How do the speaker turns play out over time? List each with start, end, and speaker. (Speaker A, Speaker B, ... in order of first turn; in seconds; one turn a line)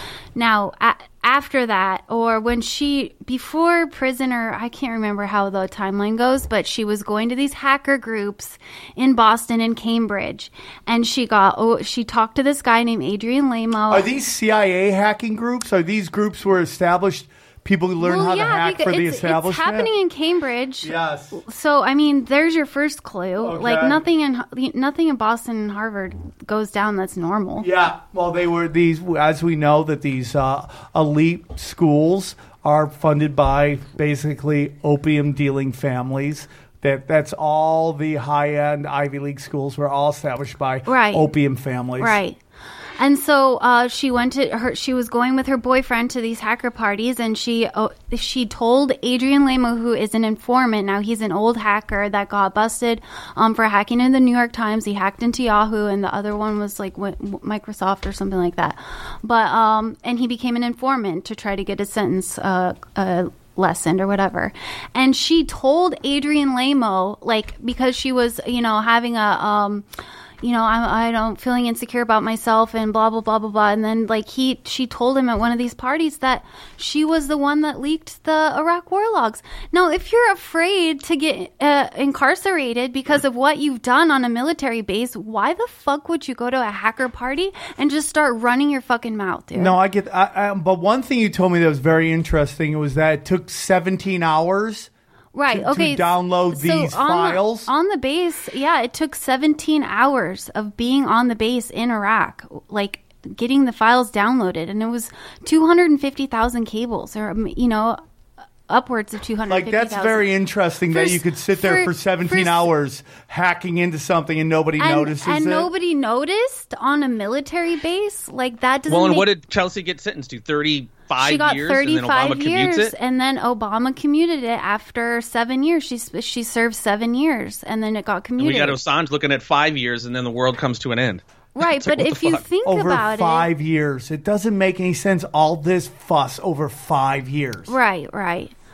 Speaker A: 0.3-14.1
Speaker B: 13.9-19.9
Speaker A: 18.0-27.7
Speaker B: 20.8-21.4
Speaker B: 23.4-24.0
Speaker B: 27.6-42.2
Speaker A: 40.9-41.3
Speaker A: 42.0-42.4
Speaker A: 43.0-69.8
Speaker A: 70.4-89.7
Speaker B: 89.5-94.9
Speaker A: 95.3-108.0
Speaker B: 95.5-97.7
Speaker A: 108.7-110.3
Speaker B: 109.5-115.7
Speaker A: 110.9-112.7
Speaker A: 114.8-119.3
Speaker C: 118.9-122.9
Speaker A: 121.2-128.8
Speaker C: 128.4-132.4
Speaker A: 131.6-133.5
Speaker B: 132.6-137.7
Speaker A: 137.7-138.5